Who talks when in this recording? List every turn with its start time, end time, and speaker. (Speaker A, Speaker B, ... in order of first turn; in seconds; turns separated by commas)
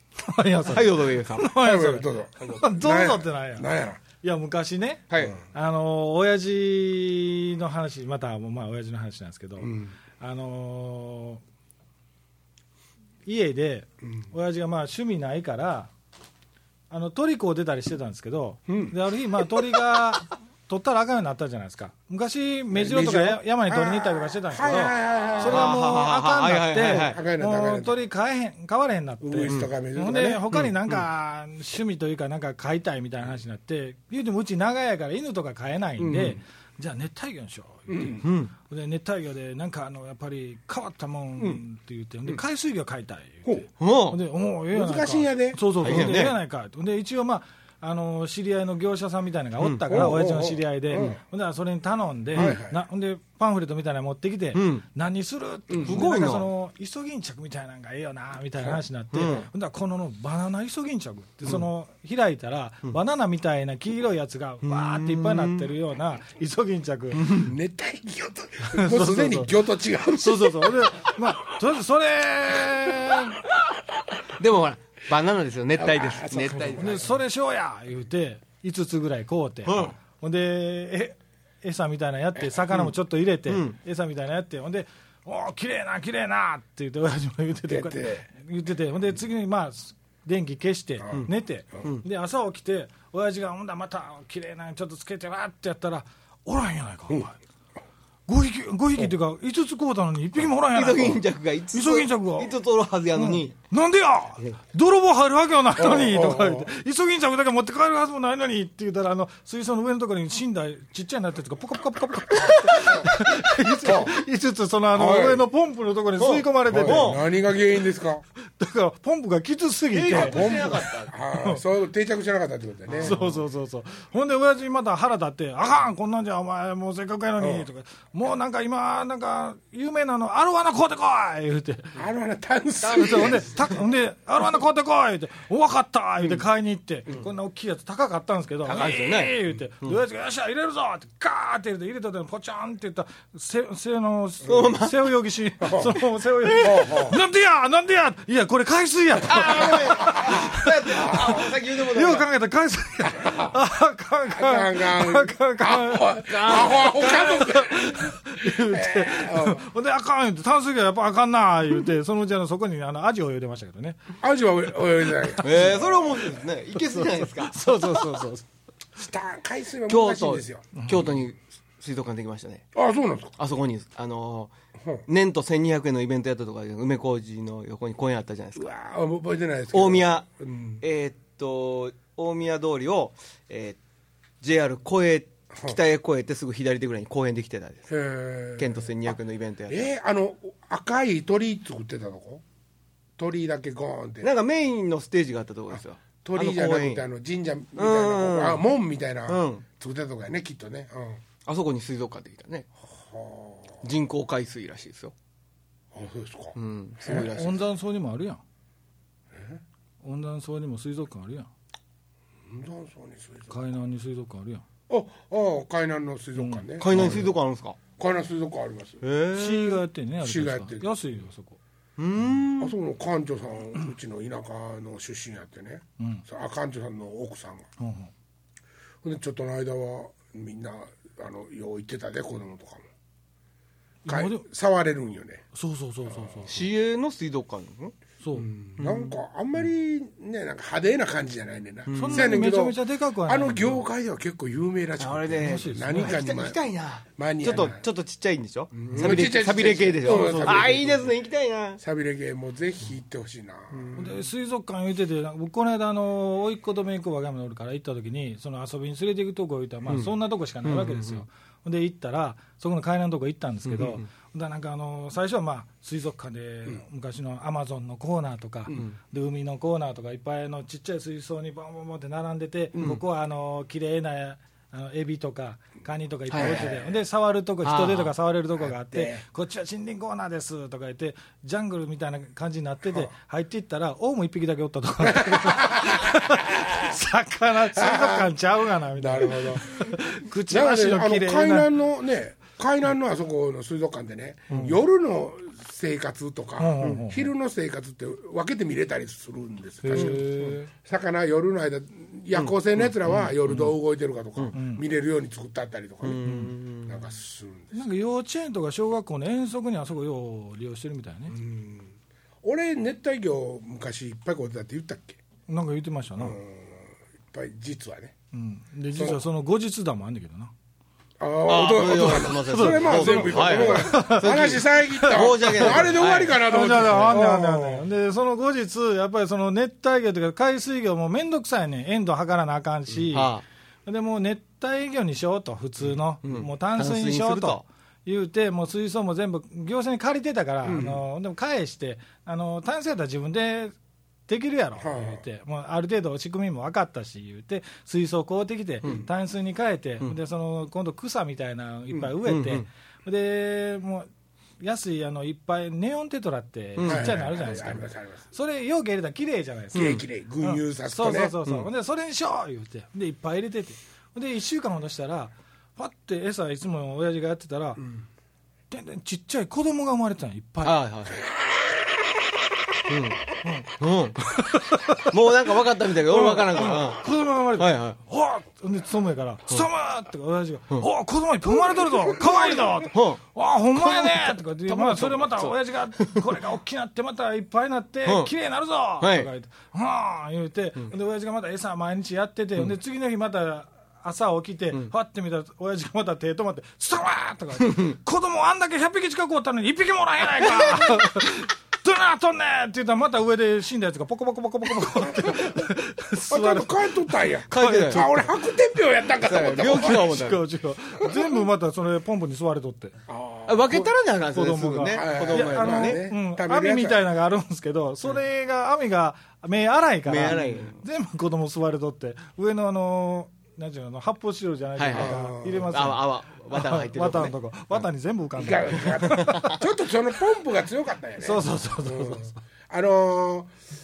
Speaker A: 0.2-3.7, Speaker B: 0.7-1.5, Speaker C: 1.6-4.0, Speaker A: 4.2-11.4, Speaker B: 5.1-5.4, Speaker C: 9.6-9.9, Speaker A: 13.2-15.9, Speaker A: 16.9-43.5, Speaker C: 18.7-19.6, Speaker C: 22.7-25.7, Speaker B: 25.4-27.2, Speaker C: 27.1-28.0, Speaker C: 29.2-30.4, Speaker B: 30.5-31.0, Speaker C: 36.0-36.4, Speaker C: 37.9-38.2, Speaker B: 38.2-38.5, Speaker B: 43.8-44.2, Speaker A: 44.1-67.4, Speaker C: 44.7-46.1, Speaker B: 45.8-46.4, Speaker B: 49.6-50.1, Speaker C: 49.9-51.2, Speaker C: 52.3-52.8, Speaker B: 54.5-54.8, Speaker C: 55.7-56.0, Speaker B: 55.8-56.5, Speaker B: 59.1-59.5, Speaker B: 64.6-65.7, Speaker B: 67.2-67.5, Speaker C: 67.3-71.1, Speaker A: 68.7-69.6, Speaker A: 70.1-73.4, Speaker B: 74.4-77.0, Speaker C: 75.8-77.1, Speaker A: 76.7-97.4, Speaker B: 79.6-79.9, Speaker B: 83.5-83.8, Speaker C: 87.7-88.2, Speaker A: 98.3-102.5, Speaker B: 100.5-103.5, Speaker A: 103.1-117.2, Speaker C: 105.8-106.7, Speaker B: 112.4-114.1, Speaker C: 113.8-114.1, Speaker C: 114.9-115.5, Speaker B: 116.2-117.2, Speaker C: 116.7-118.2, Speaker A: 118.5-120.4, Speaker B: 119.9-121.1, Speaker C: 120.1-123.1, Speaker B: 122.9-123.4, Speaker A: 123.0-131.9, Speaker C: 127.4-127.7, Speaker C: 131.9-133.5, Speaker B: 132.8-133.7, Speaker A: 132.9-164.0, Speaker B: 138.7-140.0, Speaker B: 144.4-145.1, Speaker C: 145.6-146.0, Speaker C: 146.6-147.2, Speaker B: 149.2-152.3, Speaker C: 149.3-151.5, Speaker C: 153.0-153.6, Speaker C: 154.3-159.6, Speaker B: 156.3-157.2, Speaker C: 164.2-166.3, Speaker A: 165.3-165.8, Speaker B: 165.4-168.3, Speaker A: 166.9-168.4, Speaker C: 169.0-170.7, Speaker B: 169.9-172.7, Speaker A: 170.7-171.0, Speaker C: 172.7-173.3, Speaker B: 173.4-174.5, Speaker B: 175.1-178.7, Speaker C: 178.6-180.8, Speaker B: 179.7-180.3, Speaker B: 180.8-183.8, Speaker B: 184.4-187.9, Speaker C: 187.9-189.2, Speaker B: 188.6-189.9, Speaker C: 189.7-192.4, Speaker C: 193.2-194.3, Speaker B: 194.2-197.1, Speaker C: 195.7-201.2, Speaker B: 197.8-198.6, Speaker B: 199.3-199.6, Speaker B: 201.4-202.7, Speaker C: 202.8-203.8, Speaker B: 203.8-205.1, Speaker C: 205.9-207.4, Speaker B: 206.5-207.6, Speaker A: 207.1-208.4, Speaker C: 209.3-209.6, Speaker A: 210.0-211.5, Speaker C: 212.4-213.5, Speaker A: 213.5-214.6, Speaker C: 214.9-217.3, Speaker A: 216.3-217.3, Speaker B: 216.8-217.8, Speaker C: 218.0-219.0, Speaker B: 219.0-219.8, Speaker A: 219.3-221.6, Speaker C: 220.2-220.9, Speaker B: 222.0-222.7, Speaker C: 222.6-227.7, Speaker A: 226.0-226.2, Speaker A: 227.8-228.1, Speaker C: 229.0-232.9, Speaker A: 234.1-234.4, Speaker C: 234.1-235.4, Speaker A: 235.5-236.5, Speaker C: 236.1-236.7, Speaker B: 236.5-237.9, Speaker A: 238.2-238.5, Speaker C: 238.3-246.6, Speaker B: 238.8-239.1, Speaker B: 241.9-242.3, Speaker A: 241.9-243.8, Speaker B: 245.0-251.8, Speaker A: 245.4-246.2, Speaker C: 247.1-247.8, Speaker C: 248.7-251.1, Speaker A: 250.0-250.7, Speaker C: 251.8-254.1, Speaker A: 253.9-291.7, Speaker B: 259.9-261.2, Speaker B: 263.7-264.1, Speaker B: 268.7-268.9, Speaker B: 272.7-273.0, Speaker B: 276.3-276.7, Speaker C: 276.3-276.9, Speaker B: 277.6-278.1, Speaker C: 278.6-279.2, Speaker C: 285.0-286.9, Speaker C: 287.7-288.3, Speaker C: 289.0-289.8, Speaker C: 290.5-306.3, Speaker A: 294.5-294.8, Speaker A: 296.6-297.3, Speaker A: 299.8-300.7, Speaker B: 299.9-300.6, Speaker B: 302.3-303.7, Speaker A: 304.5-304.8, Speaker B: 306.0-307.1, Speaker A: 306.2-306.5, Speaker C: 306.8-307.8, Speaker A: 307.7-311.3, Speaker C: 311.3-315.2, Speaker A: 315.5-316.4, Speaker C: 316.2-318.1, Speaker A: 318.3-320.5, Speaker C: 318.9-319.2, Speaker C: 321.2-327.9, Speaker B: 321.5-326.9, Speaker A: 322.0-325.9, Speaker A: 326.4-333.3, Speaker B: 333.1-333.4, Speaker A: 333.9-343.8, Speaker B: 336.2-337.6, Speaker C: 340.6-341.0, Speaker A: 344.3-354.1, Speaker C: 344.8-345.2, Speaker B: 352.2-352.6, Speaker A: 354.6-367.8, Speaker B: 356.8-357.2, Speaker C: 356.9-358.2, Speaker C: 359.7-361.3, Speaker B: 359.7-360.0, Speaker A: 368.7-370.8, Speaker B: 370.6-371.2, Speaker C: 371.2-371.9, Speaker B: 372.9-374.2, Speaker A: 373.4-373.7, Speaker A: 374.3-375.1, Speaker B: 375.1-378.0, Speaker A: 376.1-408.2, Speaker C: 382.2-382.7, Speaker B: 382.9-383.2, Speaker B: 383.7-386.3, Speaker B: 388.0-388.3, Speaker B: 389.0-389.3, Speaker B: 397.6-397.9, Speaker B: 400.4-400.9, Speaker C: 406.3-410.2, Speaker B: 407.5-408.4, Speaker B: 409.2-410.4, Speaker A: 409.7-412.9, Speaker C: 413.1-413.9, Speaker B: 413.5-416.0, Speaker A: 414.3-429.6, Speaker C: 414.9-417.0, Speaker B: 420.1-420.8, Speaker B: 424.8-427.8, Speaker C: 424.9-425.8, Speaker C: 428.4-433.5, Speaker B: 428.8-429.6, Speaker A: 431.2-432.4